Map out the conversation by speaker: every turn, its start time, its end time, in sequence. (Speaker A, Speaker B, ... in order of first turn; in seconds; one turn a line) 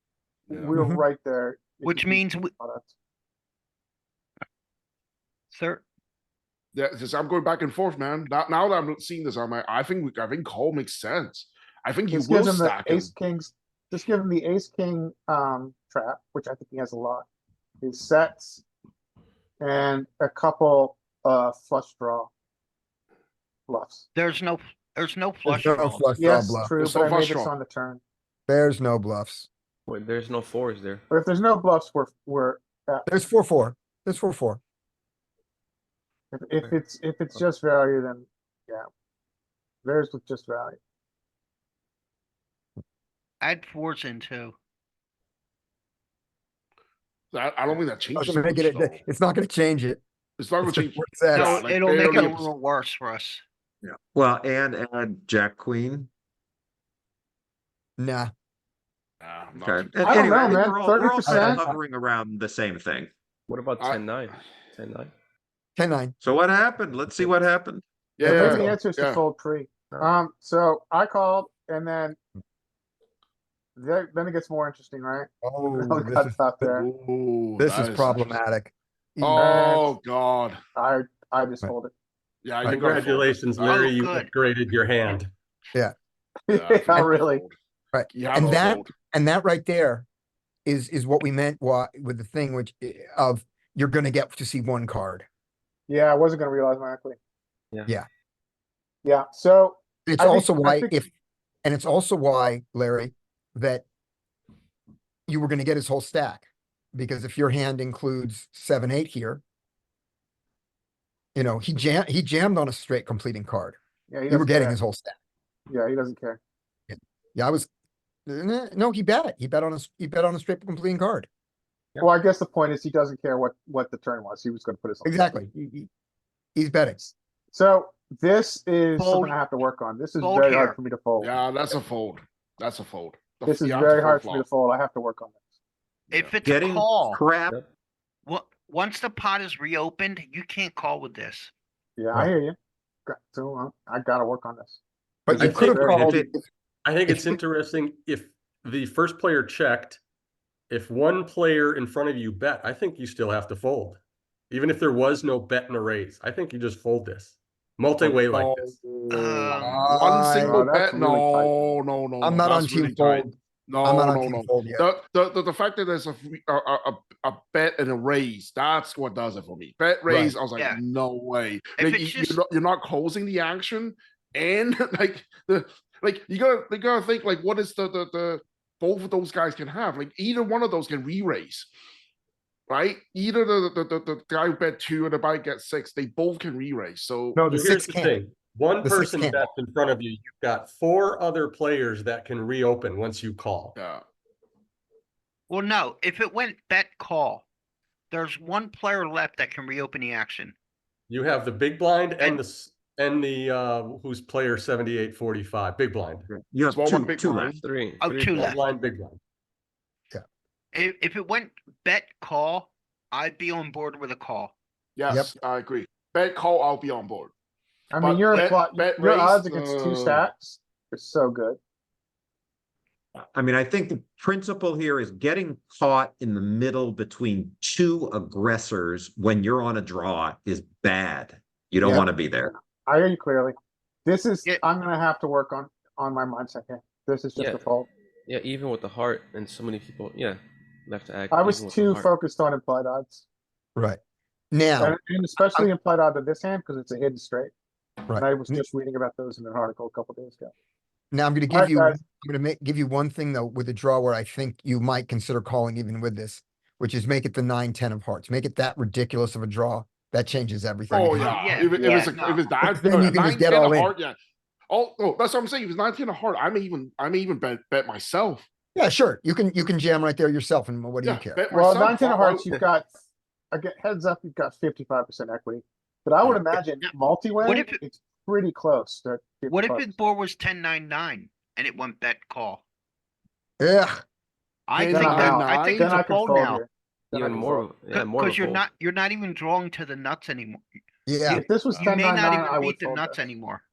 Speaker A: 0.5-0.8
Speaker B: 0.5-2.9
Speaker C: 0.7-1.0
Speaker D: 1.8-2.5
Speaker D: 5.5-5.8
Speaker A: 6.7-13.1
Speaker B: 12.1-17.3
Speaker B: 17.8-18.6
Speaker B: 19.6-22.3
Speaker B: 23.7-24.1
Speaker D: 24.1-26.1
Speaker C: 25.5-26.8
Speaker B: 26.2-28.0
Speaker A: 26.8-27.5
Speaker C: 28.5-29.5
Speaker E: 29.9-31.0
Speaker B: 31.1-33.1
Speaker C: 33.1-34.6
Speaker B: 36.3-38.9
Speaker B: 39.8-40.8
Speaker D: 43.4-44.6
Speaker A: 47.3-49.0
Speaker C: 48.1-50.0
Speaker A: 50.4-52.5
Speaker C: 50.6-51.7
Speaker D: 51.3-53.4
Speaker F: 53.8-56.1
Speaker C: 58.0-58.3
Speaker A: 59.2-60.6
Speaker F: 59.5-63.1
Speaker B: 60.0-61.7
Speaker C: 61.2-61.8
Speaker E: 63.5-65.1
Speaker C: 65.8-66.2
Speaker F: 66.2-67.8
Speaker A: 68.2-69.2
Speaker B: 68.2-72.2
Speaker C: 68.2-68.7
Speaker B: 73.8-75.3
Speaker C: 75.4-76.5
Speaker B: 75.8-76.9
Speaker A: 76.7-78.4
Speaker C: 77.6-79.8
Speaker A: 79.2-80.6
Speaker B: 79.3-79.8
Speaker B: 80.8-81.9
Speaker A: 82.4-83.8
Speaker C: 82.6-83.1
Speaker G: 82.7-85.3
Speaker D: 83.6-84.3
Speaker B: 86.5-87.4
Speaker A: 86.5-87.5
Speaker C: 87.9-90.1
Speaker A: 88.1-88.9
Speaker C: 90.7-95.3
Speaker B: 95.9-97.2
Speaker B: 99.0-101.0
Speaker C: 100.1-101.1
Speaker C: 101.6-103.8
Speaker C: 105.3-109.4
Speaker C: 111.3-113.8
Speaker B: 114.1-114.8
Speaker C: 114.3-115.2
Speaker B: 115.7-116.4
Speaker C: 116.9-117.7
Speaker C: 118.3-121.3
Speaker B: 122.0-125.3
Speaker C: 125.0-125.9
Speaker C: 126.5-127.0
Speaker B: 127.0-131.3
Speaker D: 129.0-129.4
Speaker D: 130.2-130.8
Speaker A: 131.2-134.5
Speaker B: 133.5-135.4
Speaker D: 136.1-137.2
Speaker A: 136.1-136.4
Speaker F: 136.4-137.6
Speaker D: 138.3-141.5
Speaker B: 142.0-144.8
Speaker C: 145.3-146.4
Speaker B: 145.3-146.1
Speaker G: 145.4-146.1
Speaker F: 145.4-146.3
Speaker G: 146.8-150.0
Speaker C: 147.1-147.4
Speaker G: 150.7-154.0
Speaker G: 154.5-158.7
Speaker A: 158.0-181.7
Speaker D: 159.1-160.0
Speaker C: 159.6-160.6
Speaker B: 160.4-161.8
Speaker C: 162.2-164.9
Speaker C: 170.1-170.3
Speaker D: 170.5-170.8
Speaker D: 171.8-172.4
Speaker A: 182.7-187.4
Speaker C: 187.4-188.2
Speaker G: 187.5-193.8
Speaker C: 188.8-189.5
Speaker A: 193.8-194.0
Speaker D: 195.5-197.4
Speaker D: 198.1-200.6
Speaker G: 201.1-206.3
Speaker F: 206.3-207.6
Speaker A: 206.7-207.6
Speaker E: 207.6-208.6
Speaker D: 208.0-208.8
Speaker G: 208.3-209.2
Speaker D: 210.7-214.6
Speaker A: 215.0-217.3
Speaker B: 217.9-221.6
Speaker A: 218.0-220.3
Speaker F: 223.2-232.5
Speaker B: 231.8-237.9
Speaker E: 237.4-237.6
Speaker E: 238.3-242.1
Speaker B: 241.3-243.2
Speaker C: 244.5-245.0
Speaker B: 244.8-247.5
Speaker C: 248.1-248.6
Speaker B: 248.2-250.5
Speaker C: 251.1-262.1
Speaker B: 251.5-252.0
Speaker A: 260.9-264.2
Speaker D: 261.2-262.6
Speaker C: 262.6-263.9
Speaker A: 264.7-268.5
Speaker C: 268.8-271.4
Speaker A: 271.0-272.6
Speaker B: 271.5-272.9
Speaker B: 273.5-279.9
Speaker D: 277.4-277.8
Speaker D: 279.5-282.6
Speaker C: 283.6-284.0
Speaker D: 284.7-286.6
Speaker A: 284.7-286.0
Speaker B: 284.9-287.7
Speaker E: 287.1-288.6
Speaker D: 287.9-290.6
Speaker C: 291.1-291.4
Speaker D: 291.3-293.6
Speaker B: 291.3-293.2